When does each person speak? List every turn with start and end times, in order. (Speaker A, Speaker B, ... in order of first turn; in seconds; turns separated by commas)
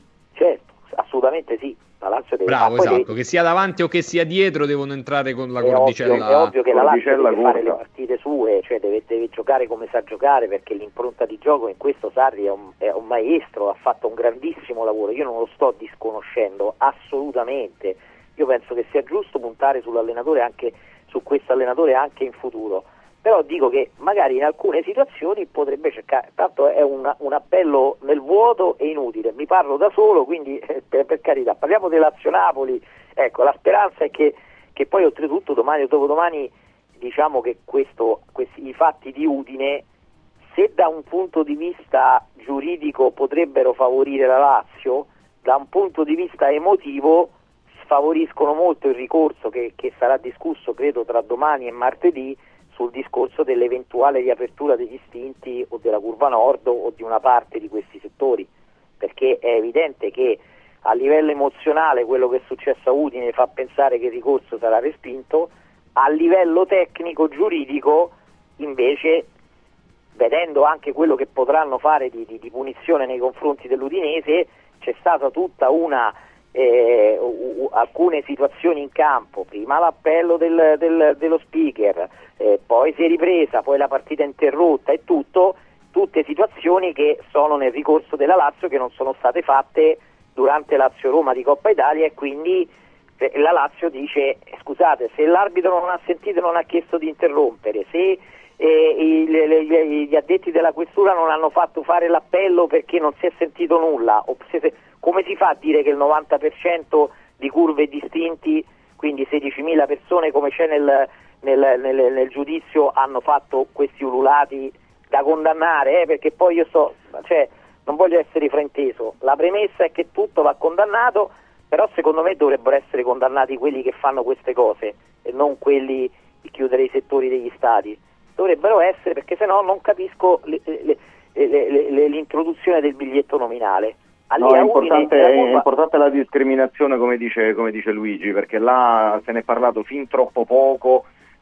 Speaker A: 0.3-3.1, Speaker B: 2.5-6.5, Speaker A: 5.6-39.8, Speaker C: 6.6-7.8, Speaker A: 40.5-58.5, Speaker A: 59.0-69.3, Speaker A: 70.2-92.7, Speaker A: 93.2-135.6, Speaker C: 134.4-141.1